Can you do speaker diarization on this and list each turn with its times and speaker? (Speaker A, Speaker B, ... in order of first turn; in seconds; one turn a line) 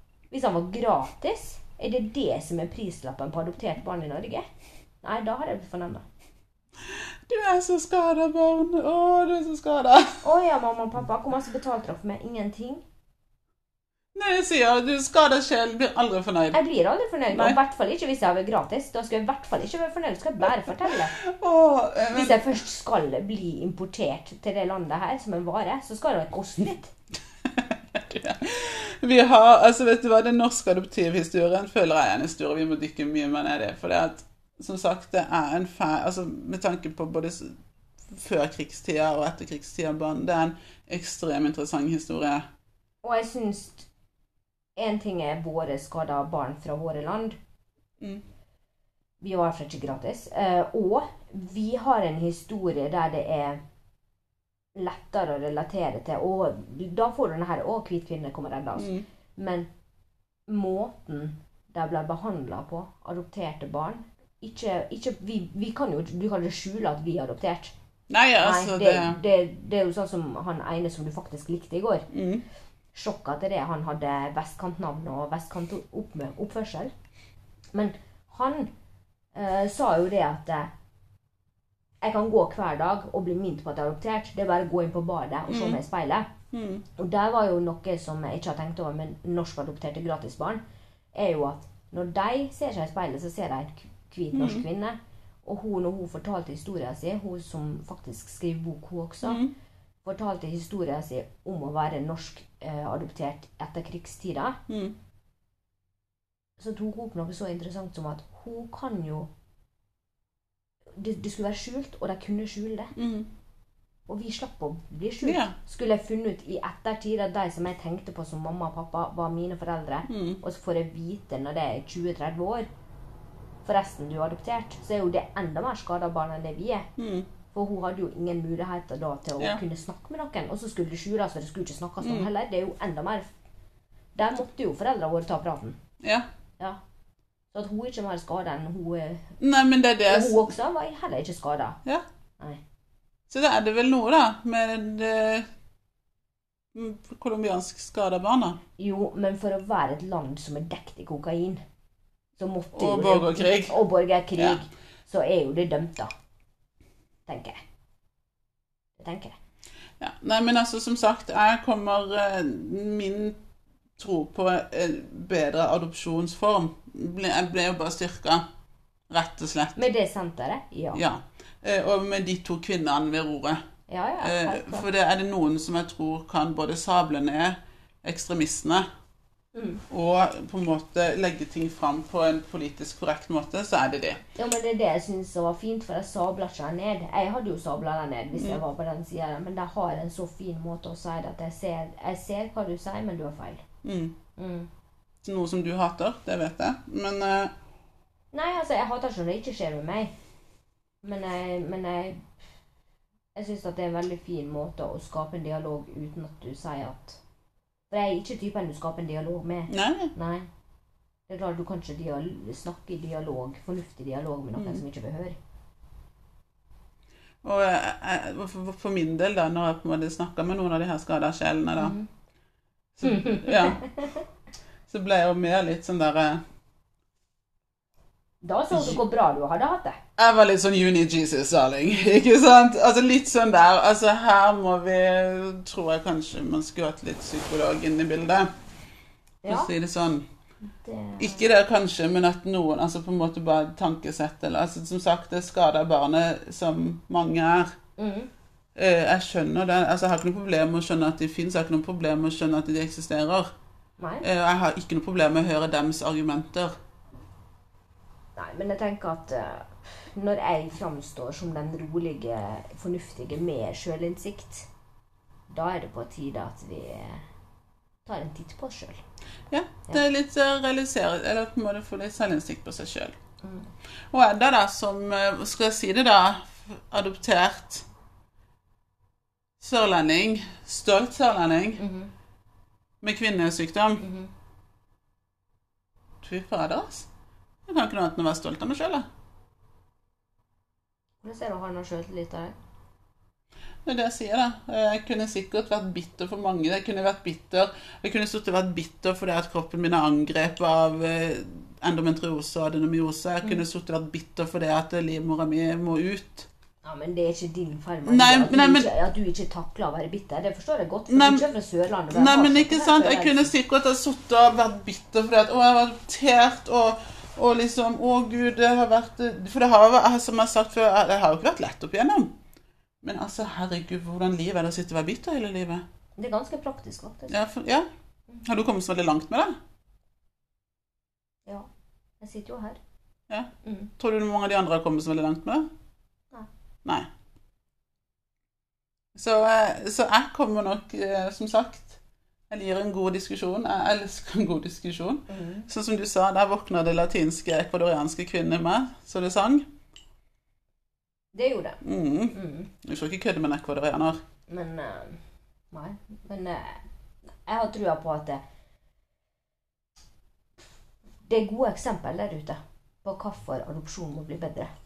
Speaker A: 0.3-4.5
Speaker A: 5.0-6.0
Speaker B: 6.8-10.2
Speaker A: 10.2-12.8
Speaker B: 14.1-16.6
Speaker A: 16.5-21.1
Speaker B: 17.3-17.6
Speaker B: 20.4-22.6
Speaker A: 22.1-26.9
Speaker B: 27.4-42.5
Speaker A: 43.0-43.9
Speaker A: 44.8-47.4
Speaker A: 49.2-53.6
Speaker A: 54.7-59.7
Speaker B: 58.8-59.1
Speaker A: 60.5-67.7
Speaker B: 68.1-69.2
Speaker A: 68.4-72.1
Speaker B: 72.1-72.4
Speaker A: 72.9-76.9
Speaker A: 77.7-78.7
Speaker A: 79.3-80.7
Speaker A: 82.0-86.3
Speaker B: 85.5-85.8
Speaker B: 86.5-86.8
Speaker A: 86.9-90.6
Speaker A: 91.1-99.4
Speaker B: 94.3-94.6
Speaker B: 99.2-99.5
Speaker A: 100.0-104.6
Speaker B: 104.7-104.9
Speaker A: 106.6-109.3
Speaker A: 111.0-112.9
Speaker B: 113.0-113.3
Speaker A: 114.1-122.7
Speaker B: 115.2-115.5
Speaker B: 120.1-120.4
Speaker A: 123.6-126.9
Speaker B: 127.0-127.3
Speaker A: 127.5-133.3
Speaker B: 132.0-132.3
Speaker A: 134.2-135.8
Speaker B: 136.0-136.3
Speaker A: 137.5-139.3
Speaker B: 139.4-140.5
Speaker A: 140.1-141.8
Speaker B: 143.3-145.5
Speaker B: 146.7-148.6
Speaker A: 148.8-151.6
Speaker A: 152.4-156.1
Speaker B: 152.7-153.8
Speaker A: 157.3-157.6
Speaker A: 159.0-159.3
Speaker B: 160.0-163.4
Speaker B: 164.0-168.4
Speaker B: 169.1-169.8
Speaker A: 169.8-171.0
Speaker B: 170.9-173.6
Speaker A: 173.9-174.9
Speaker B: 174.2-178.9
Speaker A: 179.5-179.8
Speaker B: 179.9-184.2
Speaker A: 184.4-193.6
Speaker B: 188.3-188.6
Speaker B: 193.8-194.2
Speaker A: 194.4-194.7
Speaker B: 195.2-197.5
Speaker A: 198.3-200.1
Speaker A: 201.0-202.3
Speaker A: 203.3-207.2
Speaker A: 207.9-210.5
Speaker B: 209.7-210.1
Speaker A: 211.3-215.4
Speaker B: 214.6-214.8
Speaker B: 217.4-221.9
Speaker A: 221.8-222.1
Speaker B: 222.9-223.8
Speaker A: 223.0-224.2
Speaker B: 224.9-226.4
Speaker A: 228.4-230.0
Speaker B: 228.7-229.0
Speaker B: 230.2-238.5
Speaker A: 239.4-239.7
Speaker B: 239.5-240.3
Speaker A: 240.6-241.4
Speaker B: 241.2-247.7
Speaker A: 248.0-248.3
Speaker B: 248.7-253.5
Speaker A: 254.0-254.2
Speaker B: 254.2-256.7
Speaker A: 258.4-264.7
Speaker A: 265.5-267.2
Speaker A: 268.1-269.0
Speaker B: 269.5-273.2
Speaker A: 273.4-273.7
Speaker B: 274.1-277.9
Speaker B: 279.6-281.8
Speaker A: 281.8-282.1
Speaker B: 283.0-284.0
Speaker A: 284.0-284.3
Speaker B: 286.2-287.1
Speaker B: 287.7-289.1
Speaker A: 291.2-292.6
Speaker B: 293.8-306.5
Speaker A: 306.8-313.5
Speaker B: 308.1-308.9
Speaker B: 311.1-311.5
Speaker B: 312.1-322.4
Speaker B: 323.0-325.8
Speaker A: 326.2-327.4
Speaker B: 327.3-327.9
Speaker B: 328.4-329.6
Speaker A: 332.2-332.8
Speaker B: 333.3-335.7
Speaker A: 333.6-333.9
Speaker B: 339.1-349.7
Speaker A: 345.3-345.7
Speaker A: 351.3-351.8
Speaker B: 351.8-354.2
Speaker A: 352.3-352.7
Speaker A: 354.5-355.2
Speaker A: 355.7-356.8
Speaker A: 357.4-358.4
Speaker A: 361.2-364.7